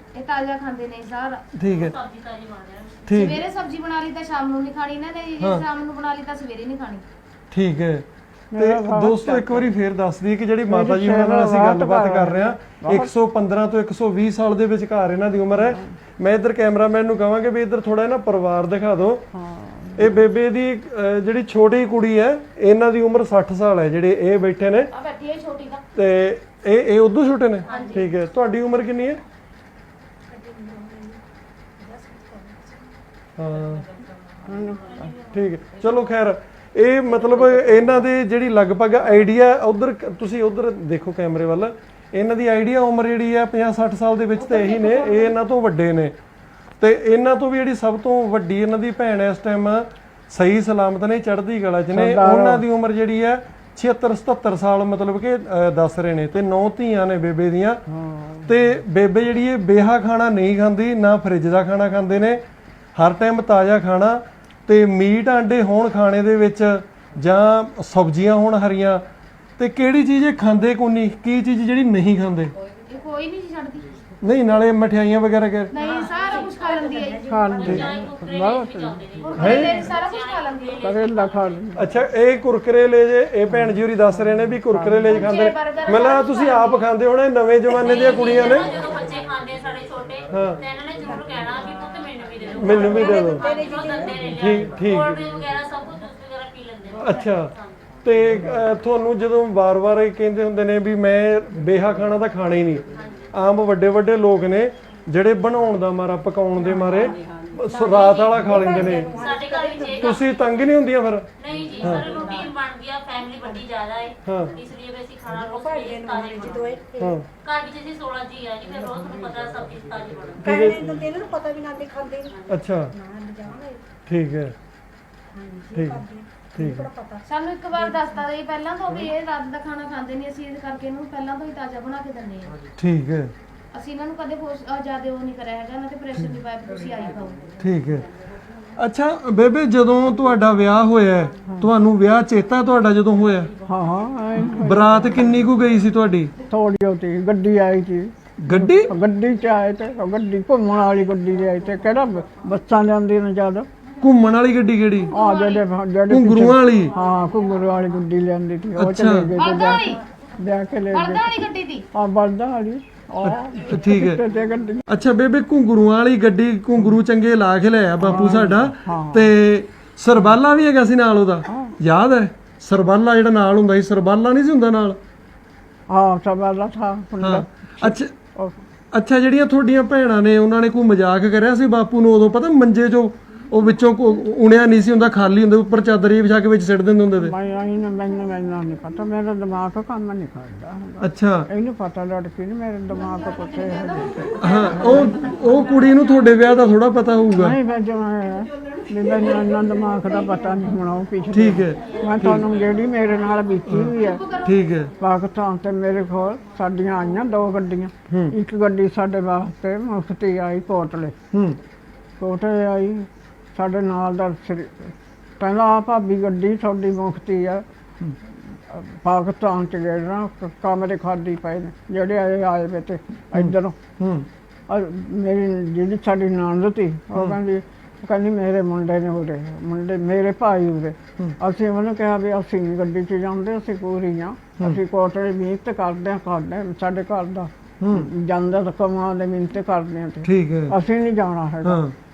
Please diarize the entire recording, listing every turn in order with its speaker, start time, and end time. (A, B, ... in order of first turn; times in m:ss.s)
0:00.1-0:01.4 A
0:01.5-0:01.9 B
0:01.6-0:03.0 C
0:03.1-0:03.4 B
0:03.1-0:07.0 A
0:05.4-0:05.6 B
0:07.5-0:08.0 B
0:08.5-0:09.7 D
0:08.6-0:19.2 B
0:10.7-0:13.1 D
0:15.6-0:15.9 D
0:19.3-0:20.2 D
0:20.0-0:24.9 B
0:24.9-0:25.8 A
0:25.9-0:29.2 B
0:27.7-0:28.1 A
0:30.3-0:31.2 E
0:31.8-0:32.9 E
0:33.4-0:33.8 B
0:34.4-0:35.2 D
0:35.2-0:46.1 B
0:44.4-0:45.4 A
0:46.8-0:57.8 B
0:51.9-0:52.6 D
0:57.9-0:58.5 D
0:58.5-1:02.4 B
1:02.9-1:09.0 B
1:09.6-1:12.5 B
1:12.9-1:14.0 A
1:14.2-1:15.7 B
1:15.7-1:17.3 A
1:15.8-1:17.9 E
1:17.3-1:19.3 D
1:17.6-1:21.6 C
1:17.6-1:17.9 B
1:19.3-1:21.0 A
1:19.4-1:19.9 B
1:20.8-1:21.8 D
1:21.8-1:28.8 B
1:24.7-1:25.1 D
1:25.0-1:26.8 A
1:27.7-1:37.6 C
1:30.3-1:30.6 B
1:32.5-1:34.6 E
1:32.6-1:33.5 B
1:34.3-1:35.2 B
1:37.0-1:37.5 B
1:38.0-1:49.1 B
1:42.9-1:43.3 C
1:46.8-1:50.2 E
1:47.8-1:50.2 C
1:50.0-1:51.3 B
1:51.4-1:56.8 C
1:51.8-1:52.1 B
1:51.8-1:52.5 E
1:54.2-1:54.5 B
1:55.3-1:57.2 E
1:57.0-1:57.2 B
1:57.4-2:00.7 C
2:00.4-2:01.0 B
2:00.4-2:03.8 E
2:02.5-2:02.9 B
2:04.1-2:04.5 B
2:05.3-2:07.3 E
2:05.7-2:06.0 B
2:06.6-2:06.9 B
2:07.3-2:12.6 A
2:12.8-2:13.3 B
2:13.7-2:17.5 A
2:17.6-2:18.0 B
2:18.8-2:23.5 B
2:23.6-2:25.1 D
2:24.5-2:26.3 B
2:26.5-2:33.7 D
2:28.4-2:28.9 B
2:34.0-2:35.1 B
2:35.1-2:35.6 A
2:35.1-2:41.4 D
2:36.1-2:36.9 B
2:38.8-2:39.3 B
2:39.3-2:40.0 A
2:40.9-2:41.8 A
2:41.9-2:44.9 D
2:43.2-2:44.2 B
2:44.9-2:55.0 B
2:48.0-2:49.3 D
2:51.4-2:51.7 D
2:55.9-2:58.6 D
2:57.2-2:58.1 B
2:58.9-3:07.3 B
3:07.2-3:15.3 D
3:11.0-3:11.5 B
3:14.4-3:17.6 B
3:14.4-3:15.9 A
3:17.3-3:24.2 D
3:21.3-3:22.5 B
3:23.7-3:24.9 B
3:23.9-3:24.6 A
3:25.0-3:31.2 D
3:28.1-3:28.3 B
3:31.3-3:31.6 B
3:32.2-3:37.6 D
3:38.7-3:43.8 D
3:43.3-3:44.3 B
3:44.7-4:01.8 D
3:57.8-3:58.1 B
4:00.2-4:00.7 B
4:01.6-4:01.9 B